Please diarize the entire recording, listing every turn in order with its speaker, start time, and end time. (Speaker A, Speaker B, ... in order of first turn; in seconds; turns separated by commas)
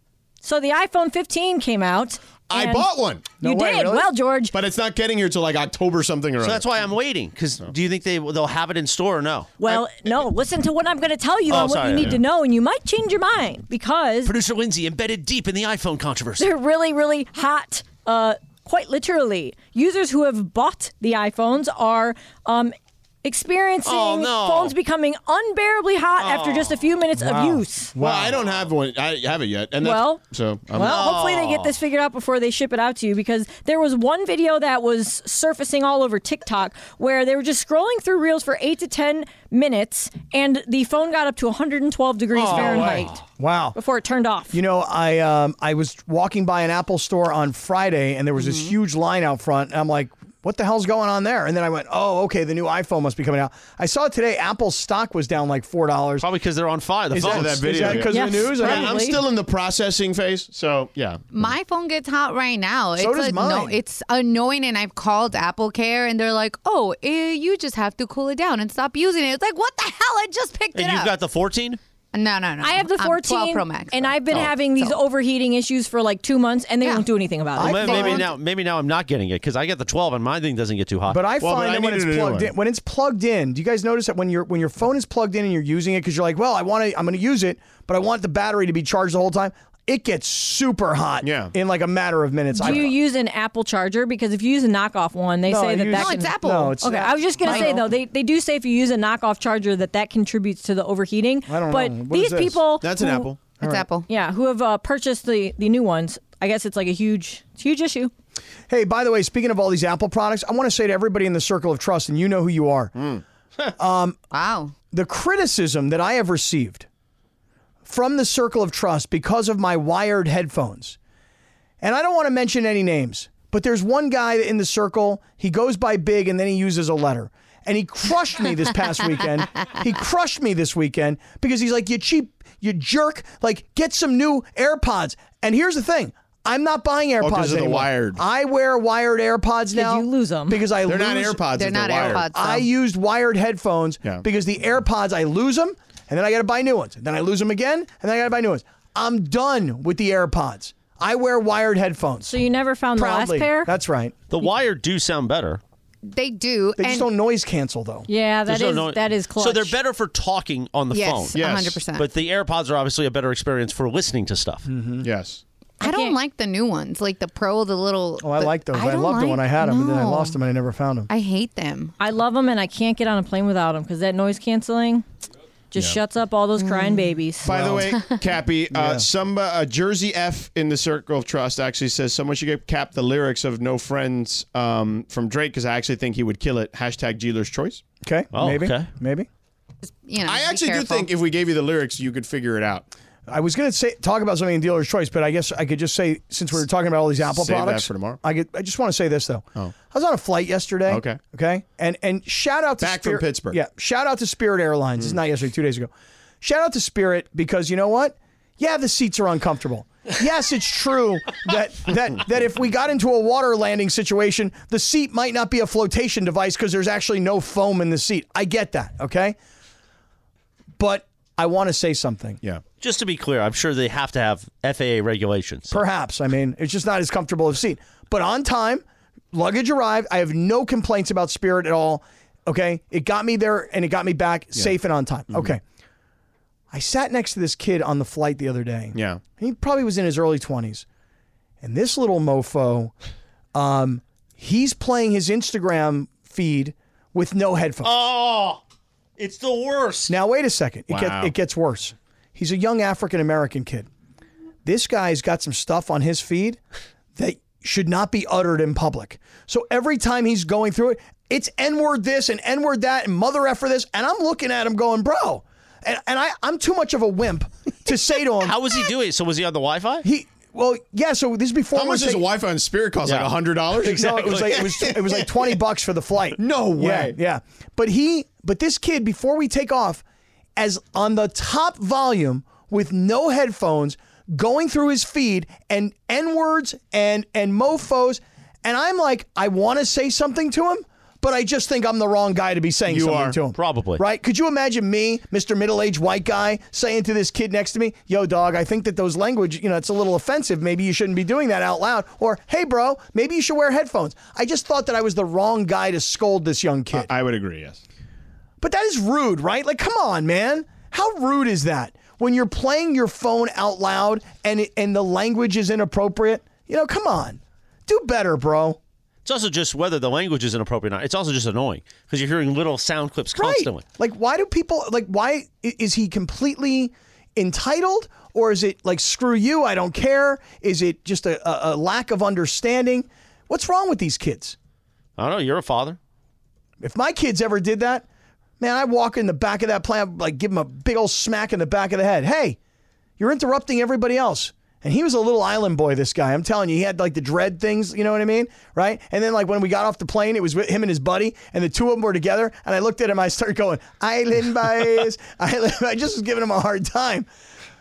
Speaker A: 0.4-4.5, Speaker B: 2.5-3.3, Speaker C: 3.4-4.1, Speaker B: 4.5-6.9, Speaker D: 6.4-9.6, Speaker A: 9.6-14.3, Speaker D: 11.5-12.2, Speaker D: 14.3-16.5, Speaker A: 16.4-27.9, Speaker D: 23.9-24.7, Speaker D: 26.2-26.9, Speaker C: 27.2-28.4, Speaker B: 27.9-31.0, Speaker A: 29.8-43.2, Speaker D: 30.8-31.8, Speaker D: 42.3-43.2, Speaker C: 42.6-43.8, Speaker A: 43.8-44.6, Speaker C: 44.5-56.3, Speaker E: 48.4-48.7, Speaker D: 56.2-58.0, Speaker C: 57.1-59.0, Speaker B: 57.2-61.2, Speaker A: 58.1-59.2, Speaker E: 61.3-71.1, Speaker C: 63.0-63.8, Speaker D: 70.7-71.8, Speaker E: 72.1-75.0, Speaker A: 72.6-78.2, Speaker E: 76.8-77.1, Speaker C: 77.6-78.3, Speaker D: 77.6-81.2, Speaker E: 77.9-78.3, Speaker C: 81.1-92.9, Speaker B: 81.4-82.5, Speaker B: 91.2-91.5, Speaker A: 92.5-103.3, Speaker C: 95.5-97.8, Speaker E: 95.9-97.9, Speaker C: 101.5-102.6, Speaker B: 102.8-103.5, Speaker E: 103.6-104.1, Speaker C: 103.6-103.9, Speaker A: 104.1-108.1, Speaker C: 108.7-112.9, Speaker B: 113.0-113.2, Speaker C: 113.8-114.2, Speaker E: 114.3-114.7, Speaker C: 114.9-116.9, Speaker C: 117.8-121.0, Speaker C: 121.8-141.4, Speaker B: 137.2-138.2, Speaker A: 139.7-140.7, Speaker B: 140.8-142.3, Speaker E: 141.5-142.7, Speaker C: 142.2-152.4, Speaker A: 152.3-153.7, Speaker C: 152.9-154.1, Speaker D: 154.3-155.6, Speaker E: 156.1-157.1, Speaker C: 156.8-158.1, Speaker A: 158.1-159.8, Speaker D: 158.5-164.7, Speaker E: 160.9-162.1, Speaker B: 161.3-161.8, Speaker C: 164.7-165.1, Speaker B: 165.0-165.4, Speaker E: 165.8-170.4, Speaker A: 165.8-166.2, Speaker C: 168.2-171.1, Speaker E: 171.1-171.9, Speaker A: 172.0-175.0, Speaker A: 175.7-177.5, Speaker E: 176.6-177.1, Speaker B: 177.4-187.8, Speaker C: 177.4-177.9, Speaker C: 178.7-179.1, Speaker C: 188.0-189.3, Speaker D: 188.3-188.9, Speaker E: 189.8-191.1, Speaker B: 190.2-192.9, Speaker C: 193.3-219.4, Speaker B: 197.3-198.2, Speaker B: 200.9-201.2, Speaker B: 202.8-203.6, Speaker C: 220.8-222.4, Speaker D: 222.8-225.8, Speaker C: 225.7-235.6, Speaker C: 236.7-240.8, Speaker B: 238.9-239.2, Speaker C: 241.6-242.9, Speaker C: 243.6-247.9, Speaker D: 247.8-248.6, Speaker D: 249.2-250.1, Speaker C: 250.1-253.9, Speaker B: 250.9-251.3, Speaker C: 254.7-256.6, Speaker C: 257.2-268.7, Speaker D: 268.4-270.1, Speaker C: 270.0-272.2, Speaker B: 271.7-275.5, Speaker D: 273.0-274.8, Speaker C: 273.8-280.0, Speaker B: 276.4-277.2, Speaker C: 280.6-307.1, Speaker B: 292.9-293.4, Speaker D: 293.5-294.0, Speaker B: 306.9-307.8, Speaker C: 308.6-318.8, Speaker D: 319.2-323.8, Speaker C: 323.4-334.6, Speaker D: 335.2-336.0, Speaker C: 336.8-338.1, Speaker C: 338.6-342.6, Speaker C: 343.2-357.3